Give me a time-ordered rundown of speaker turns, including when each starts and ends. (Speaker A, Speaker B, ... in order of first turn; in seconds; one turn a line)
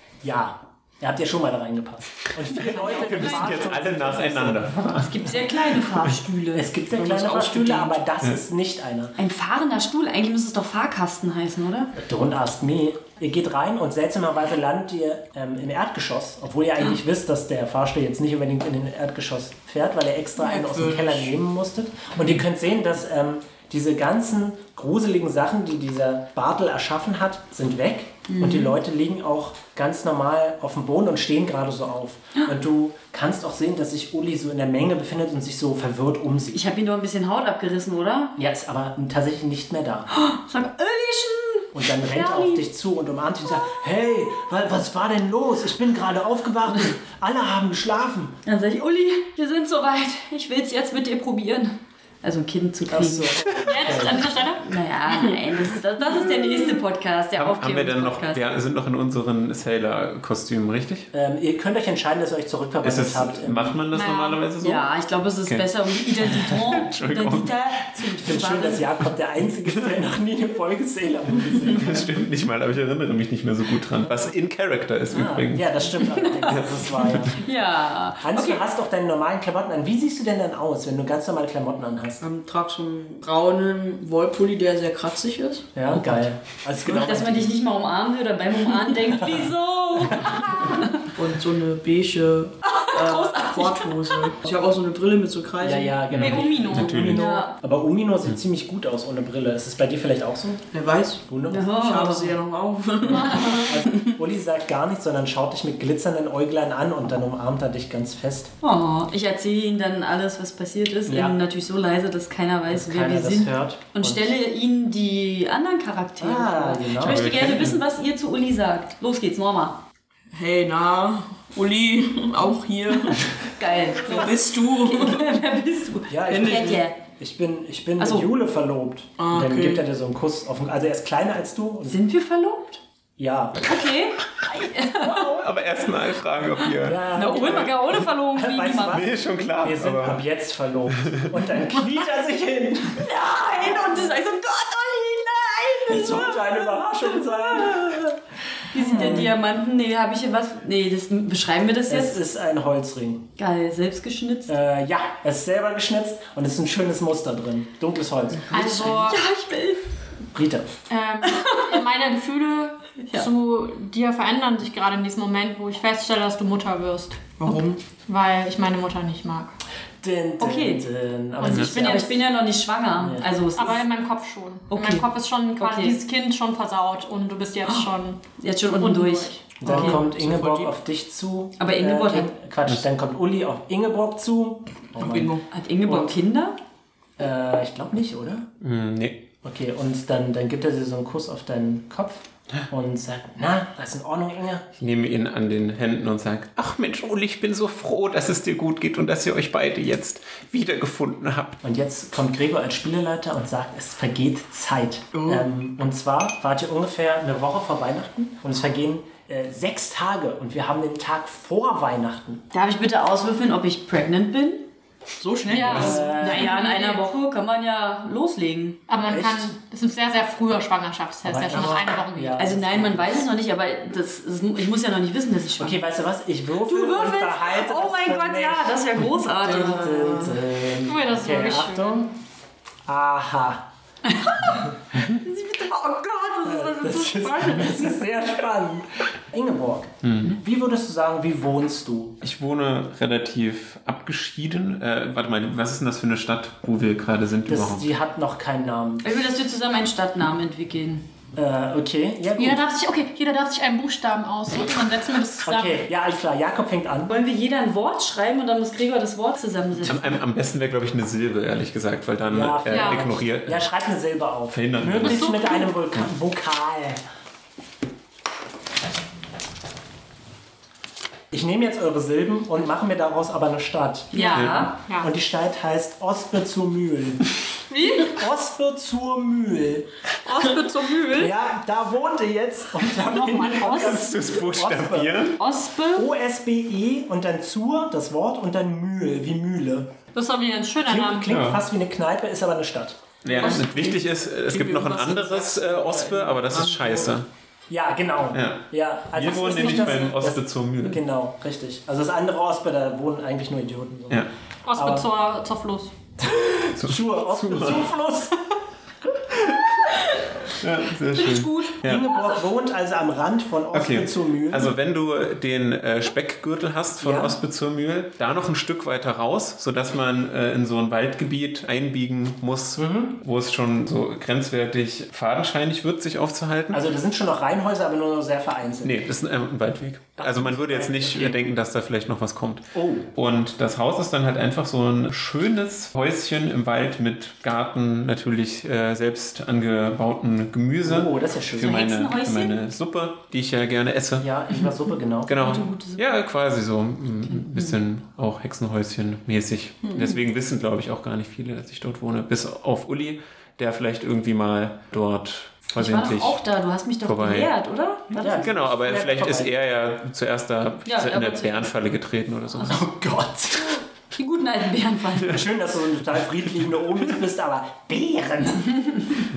Speaker A: 0.2-4.7
Speaker B: 2.5-5.4
Speaker C: 5.0-7.9
Speaker A: 6.5-9.2
Speaker C: 9.2-11.9
Speaker A: 11.9-36.6
Speaker D: 20.4-21.4
Speaker C: 28.3-28.7
Speaker C: 36.5-38.4
Speaker A: 38.4-40.1
Speaker C: 40.1-42.6
Speaker A: 41.7-48.4
Speaker C: 48.4-53.6
Speaker A: 52.9-54.3
Speaker E: 53.6-54.6
Speaker C: 54.6-58.4
Speaker B: 57.4-61.1
Speaker A: 61.1-63.8
Speaker B: 62.8-64.8
Speaker E: 63.9-64.4
Speaker C: 64.6-68.9
Speaker B: 65.5-67.5
Speaker A: 68.2-72.1
Speaker B: 71.7-75.7
Speaker A: 75.1-77.4
Speaker C: 76.0-78.6
Speaker A: 78.2-82.2
Speaker D: 82.2-85.7
Speaker A: 85.7-87.6
Speaker C: 86.8-91.0
Speaker A: 90.1-90.4
Speaker D: 91.1-96.3
Speaker C: 93.0-93.8
Speaker A: 95.6-100.6
Speaker B: 96.1-97.3
Speaker E: 96.2-97.1
Speaker C: 97.0-97.5
Speaker D: 100.7-103.8
Speaker A: 101.2-101.7
Speaker C: 101.5-102.3
Speaker C: 103.1-103.7
Speaker A: 103.2-108.5
Speaker C: 108.6-119.8
Speaker A: 111.0-111.4
Speaker A: 112.7-114.3
Speaker A: 116.2-117.6
Speaker B: 117.0-117.8
Speaker D: 120.3-123.3
Speaker C: 123.5-127.0
Speaker D: 124.0-125.3
Speaker A: 126.1-132.0
Speaker D: 126.3-126.8
Speaker C: 128.0-128.3
Speaker D: 129.2-129.8
Speaker C: 131.8-132.8
Speaker A: 133.2-133.7
Speaker C: 133.6-135.4
Speaker B: 135.1-137.6
Speaker A: 136.8-143.1
Speaker C: 137.1-139.0
Speaker B: 138.9-140.2
Speaker C: 143.0-148.1
Speaker A: 145.8-148.1
Speaker C: 148.7-152.2
Speaker A: 148.7-149.3
Speaker D: 148.9-149.2
Speaker A: 151.9-153.3
Speaker C: 153.4-154.6
Speaker A: 154.5-159.0
Speaker E: 158.5-159.2
Speaker C: 158.5-159.8
Speaker A: 160.3-160.7
Speaker E: 160.9-169.5
Speaker C: 161.3-161.7
Speaker D: 167.4-167.8
Speaker A: 170.0-172.1
Speaker C: 170.4-170.8
Speaker E: 171.4-172.2
Speaker C: 171.4-173.8
Speaker B: 171.5-171.7
Speaker A: 173.0-173.2
Speaker E: 173.6-179.5
Speaker C: 174.7-176.0
Speaker C: 178.4-180.0
Speaker A: 179.6-186.1
Speaker D: 179.6-180.7
Speaker C: 181.6-182.3
Speaker D: 185.0-185.5
Speaker C: 185.5-186.6
Speaker A: 187.2-188.5
Speaker B: 188.6-189.3
Speaker A: 189.4-194.7
Speaker B: 194.8-201.6
Speaker A: 201.6-212.4
Speaker D: 205.1-205.4
Speaker C: 212.5-214.7
Speaker D: 215.2-216.2
Speaker E: 215.5-217.2
Speaker C: 215.6-218.8
Speaker A: 215.6-216.5
Speaker E: 218.9-222.5
Speaker A: 219.0-219.5
Speaker A: 221.2-223.2
Speaker D: 221.5-221.8
Speaker C: 222.4-225.8
Speaker A: 225.6-228.8
Speaker C: 226.6-230.2
Speaker A: 229.4-232.1
Speaker D: 229.5-230.3
Speaker E: 230.8-232.1
Speaker A: 232.8-233.7
Speaker C: 234.1-237.8
Speaker A: 236.4-242.2
Speaker B: 240.0-240.4
Speaker B: 242.2-247.8
Speaker A: 247.4-249.0
Speaker C: 249.0-251.1
Speaker A: 251.3-252.6
Speaker E: 252.4-255.8
Speaker A: 255.4-257.2
Speaker C: 257.1-260.1
Speaker B: 259.8-263.6
Speaker A: 262.3-267.0
Speaker E: 262.7-263.0
Speaker B: 264.5-265.3
Speaker E: 265.0-265.7
Speaker A: 271.3-277.3
Speaker C: 274.1-274.8
Speaker E: 274.1-275.1
Speaker B: 274.3-274.7
Speaker E: 277.7-278.1
Speaker A: 278.0-279.9
Speaker E: 280.2-281.3
Speaker A: 281.1-285.3
Speaker E: 283.1-284.0
Speaker B: 283.7-285.4
Speaker C: 285.4-286.1
Speaker A: 285.9-289.9
Speaker E: 290.1-291.3
Speaker A: 290.8-293.3
Speaker B: 291.3-291.6
Speaker B: 293.2-297.3
Speaker D: 293.4-297.1
Speaker A: 297.7-305.1
Speaker B: 298.3-301.0
Speaker E: 299.4-300.1
Speaker E: 304.6-305.9
Speaker A: 306.2-308.4
Speaker B: 306.7-307.9
Speaker B: 309.3-312.0
Speaker E: 311.2-311.6
Speaker A: 311.8-314.8
Speaker B: 313.7-326.8
Speaker A: 317.0-317.4
Speaker A: 322.8-323.2
Speaker A: 326.7-328.9
Speaker B: 328.8-344.3
Speaker A: 330.2-331.4
Speaker A: 332.7-333.1
Speaker A: 340.8-341.9
Speaker C: 341.6-342.6
Speaker A: 344.2-345.6
Speaker B: 345.3-356.4
Speaker C: 345.3-346.0
Speaker C: 347.3-347.7
Speaker C: 355.7-358.5
Speaker B: 357.0-357.5
Speaker A: 358.2-359.5
Speaker B: 358.3-362.9
Speaker C: 360.8-361.7
Speaker A: 362.6-363.8
Speaker C: 364.1-365.4
Speaker A: 365.2-368.9